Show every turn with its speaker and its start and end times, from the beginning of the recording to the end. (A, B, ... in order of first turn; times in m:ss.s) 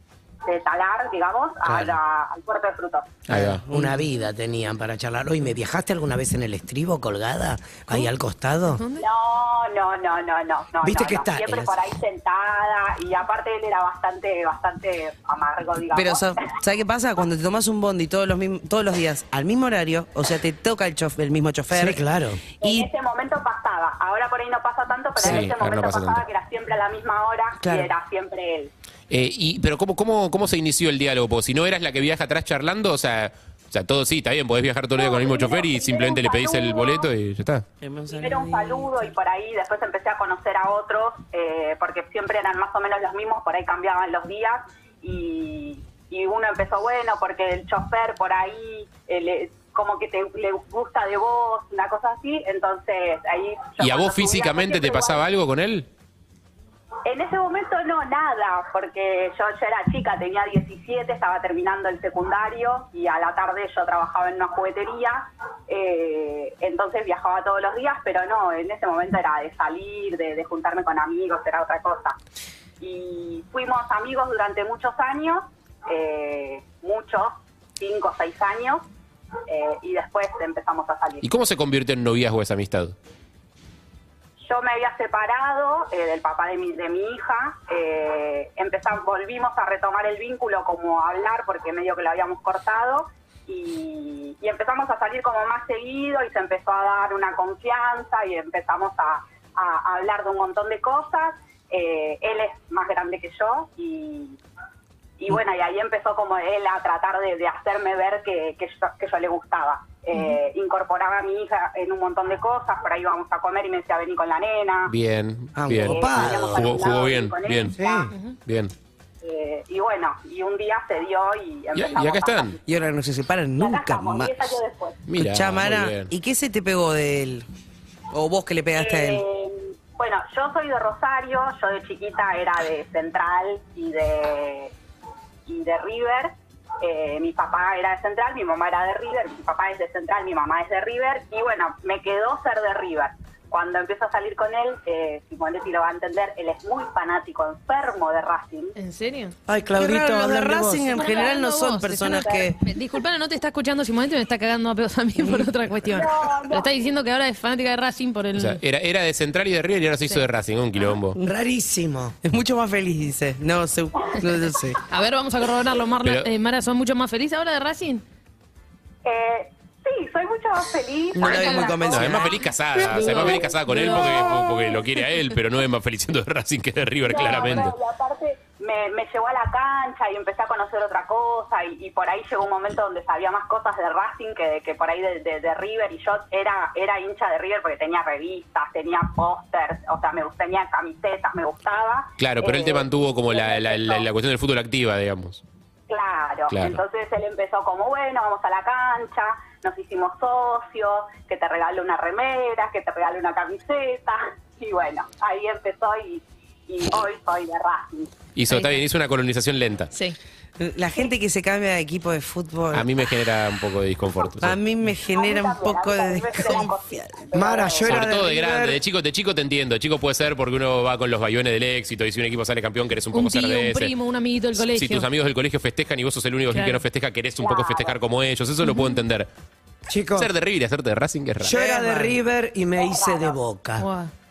0:00.4-0:03.2 A
0:01.6-0:02.0 B
0:03.3-0:03.6 C
0:03.3-0:04.0 D
0:03.7-0:08.8 B
0:08.7-0:09.0 E
0:09.0-0:16.3 A
0:10.8-0:11.7 B
0:15.9-0:22.0 D
0:21.7-0:22.4 B
0:22.6-0:22.9 D
0:22.6-0:28.7 A
0:25.2-0:26.2 C
0:27.6-0:27.9 D
0:29.1-0:37.6 C
0:34.9-0:37.1 A
0:37.8-0:38.9 D
0:38.1-0:55.2 A
0:53.8-0:55.9 C
0:57.0-1:12.2 A
1:12.8-1:18.9 A
1:19.5-1:21.3 A
1:21.2-1:23.0 C
1:24.4-1:44.4 A
1:45.2-1:54.9 A
1:54.9-1:57.8 C
1:55.6-1:56.7 B
1:55.8-1:58.1 A
1:57.8-1:58.1 B
1:58.5-1:58.7 C
1:59.2-2:02.6 A
2:01.7-2:02.6 C
2:02.7-2:04.4 D
2:03.6-2:05.0 A
2:05.1-2:06.1 C
2:05.2-2:07.4 D
2:08.1-2:09.2 D
2:08.8-2:14.7 A
2:15.4-2:28.7 A
2:28.8-2:29.3 E
2:29.5-2:31.0 B
2:29.7-2:32.6 D
2:30.9-2:38.6 E
2:35.9-2:36.7 A
2:38.4-2:41.2 C
2:41.2-2:42.2 B
2:42.2-2:44.8 D
2:44.9-2:48.0 E
2:49.0-2:54.3 A
2:51.1-2:52.4 D
2:51.9-2:57.7 C
2:52.9-2:54.5 E
2:57.0-3:14.1 A
3:12.2-3:15.4 C
3:15.9-3:28.1 A
3:16.5-3:16.8 C
3:28.3-3:29.9 C
3:28.5-3:28.8 E
3:29.9-3:30.2 E
3:30.6-3:32.9 D
3:32.7-3:34.6 C
3:34.4-3:37.2 D
3:35.1-3:38.0 A
3:37.3-3:38.8 B
3:37.8-3:43.9 C
3:43.1-3:45.1 E
3:44.6-3:49.3 C
3:46.5-3:46.8 E
3:47.4-3:48.0 A
3:48.6-3:49.0 E
3:49.9-3:50.3 B
3:50.2-3:51.6 C
3:51.4-3:53.9 B
3:51.5-3:52.2 D
3:52.8-3:53.4 A
3:53.8-3:54.1 E